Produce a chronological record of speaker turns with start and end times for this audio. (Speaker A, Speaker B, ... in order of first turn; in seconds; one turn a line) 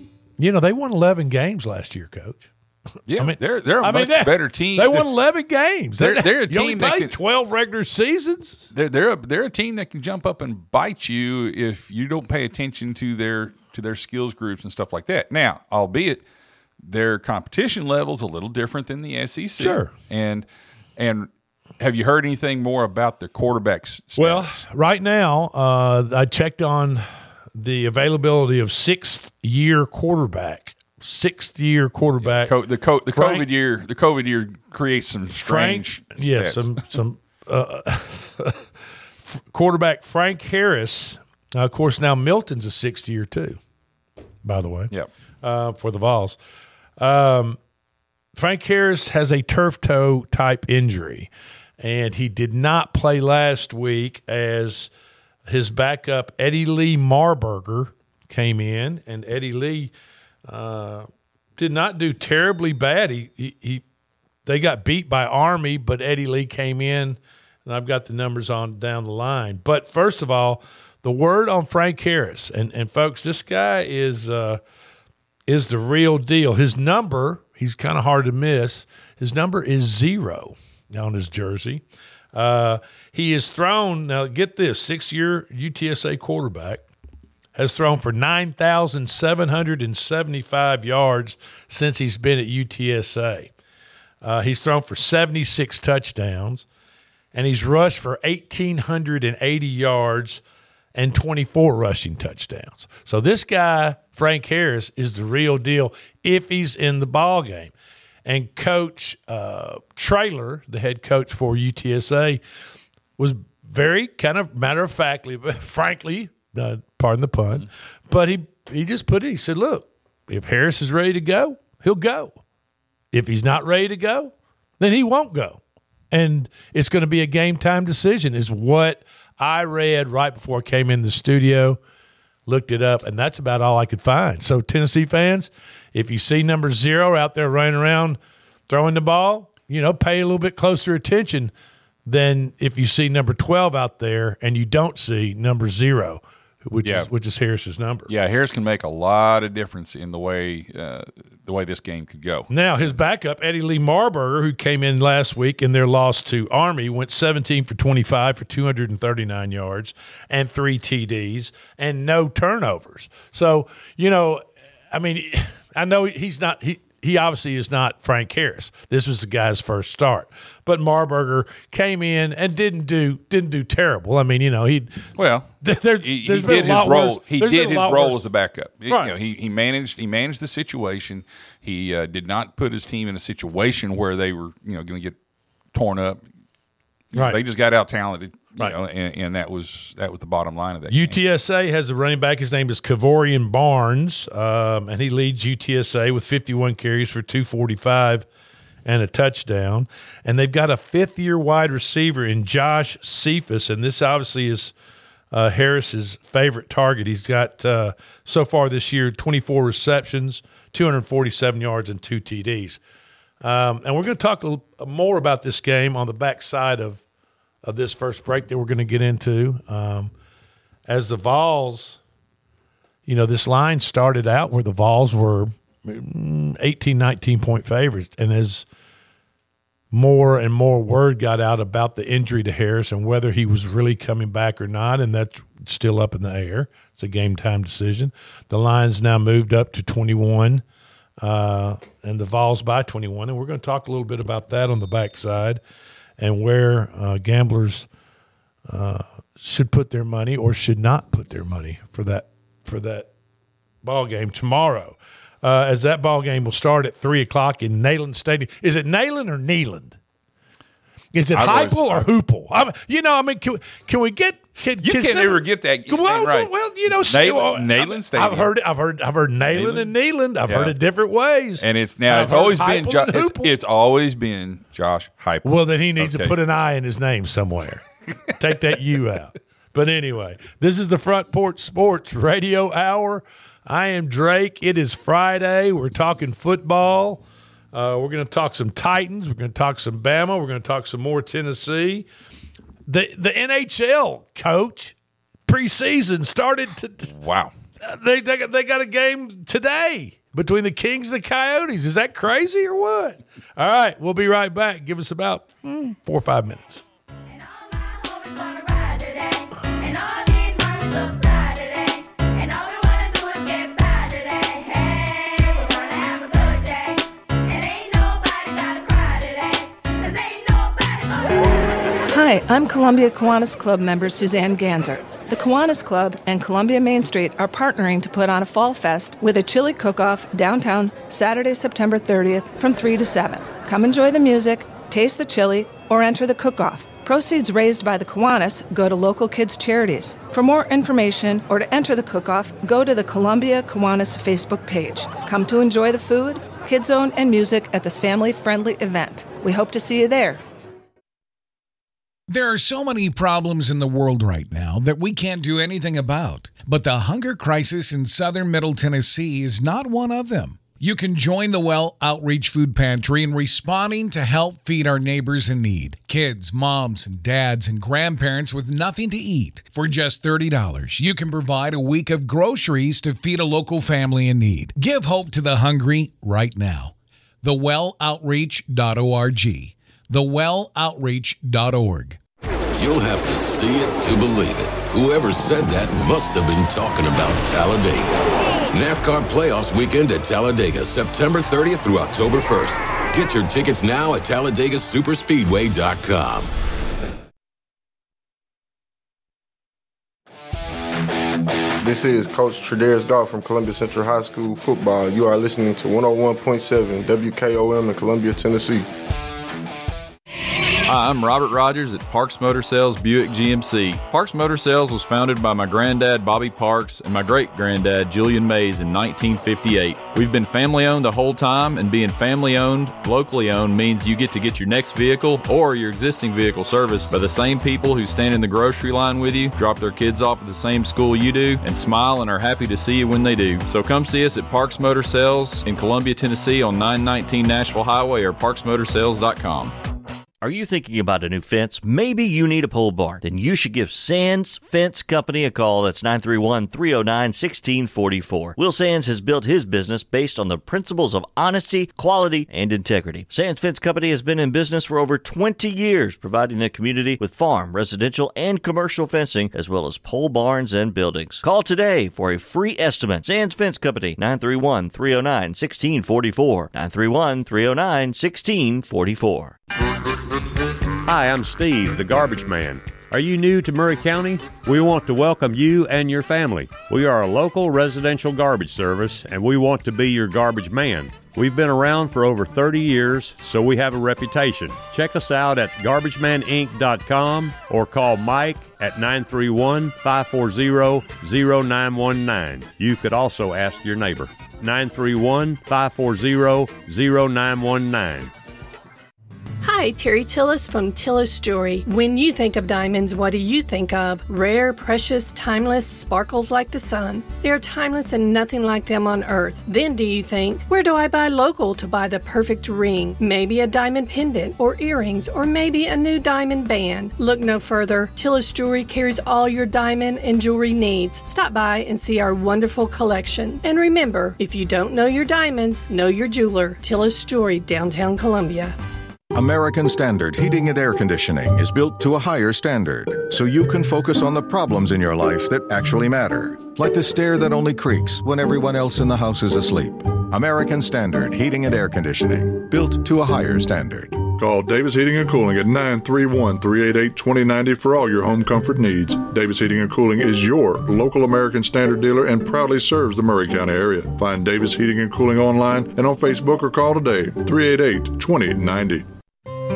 Speaker A: 0.4-2.5
Speaker B: 3.1-5.1
Speaker A: 3.2-8.7
Speaker B: 6.0-7.1
Speaker B: 8.7-16.2
Speaker B: 16.8-24.6
Speaker A: 19.6-19.9
Speaker A: 24.2-27.0
Speaker A: 27.6-32.5
Speaker B: 32.2-36.8
Speaker A: 33.1-33.5
Speaker A: 35.3-38.6
Speaker A: 39.3-43.6
Speaker A: 44.4-44.9
Speaker A: 45.4-46.4
Speaker A: 47.0-47.6
Speaker A: 48.4-54.9
Speaker A: 55.5-59.9
Speaker A: 60.5-61.1
Speaker A: 61.6-63.8
Speaker A: 64.5-74.6
Speaker A: 75.5-81.8
Speaker A: 82.3-86.8
Speaker A: 87.6-93.5
Speaker A: 94.2-96.7
Speaker A: 97.3-100.4
Speaker A: 101.0-107.7
Speaker A: 108.3-112.4
Speaker A: 113.2-122.4
Speaker A: 123.1-125.6
Speaker A: 126.1-131.8
Speaker A: 132.5-138.2
Speaker A: 138.7-141.5
Speaker A: 142.1-148.1
Speaker B: 148.1-152.9
Speaker A: 152.5-174.9
Speaker B: 175.2-185.2
Speaker A: 175.6-178.2
Speaker A: 178.9-179.1
Speaker B: 185.7-186.2
Speaker B: 187.1-191.2
Speaker A: 187.2-187.4
Speaker A: 190.9-198.3
Speaker A: 198.8-204.7
Speaker A: 205.3-212.8
Speaker A: 213.4-217.0
Speaker A: 217.6-220.1
Speaker A: 220.9-222.0
Speaker A: 223.1-228.7
Speaker A: 229.9-240.6
Speaker A: 241.2-245.6
Speaker A: 246.2-247.9
Speaker A: 248.7-253.1
Speaker A: 253.8-260.0
Speaker A: 261.1-273.5
Speaker B: 261.3-262.1
Speaker B: 264.8-266.5
Speaker B: 267.0-268.5
Speaker B: 269.5-269.9
Speaker B: 270.5-270.8
Speaker B: 271.6-276.4
Speaker A: 275.4-277.9
Speaker A: 278.4-287.2
Speaker A: 287.7-292.1
Speaker A: 292.9-294.9
Speaker A: 295.5-297.1
Speaker B: 297.1-297.5
Speaker A: 297.8-306.8
Speaker C: 322.0-350.4
Speaker D: 352.3-382.2
Speaker E: 382.8-388.2
Speaker E: 388.7-396.5
Speaker F: 401.8-408.9
Speaker G: 410.9-439.7
Speaker H: 440.4-469.6
Speaker I: 471.1-498.3
Speaker J: 499.6-528.8
Speaker K: 529.4-544.2
Speaker L: 544.3-559.1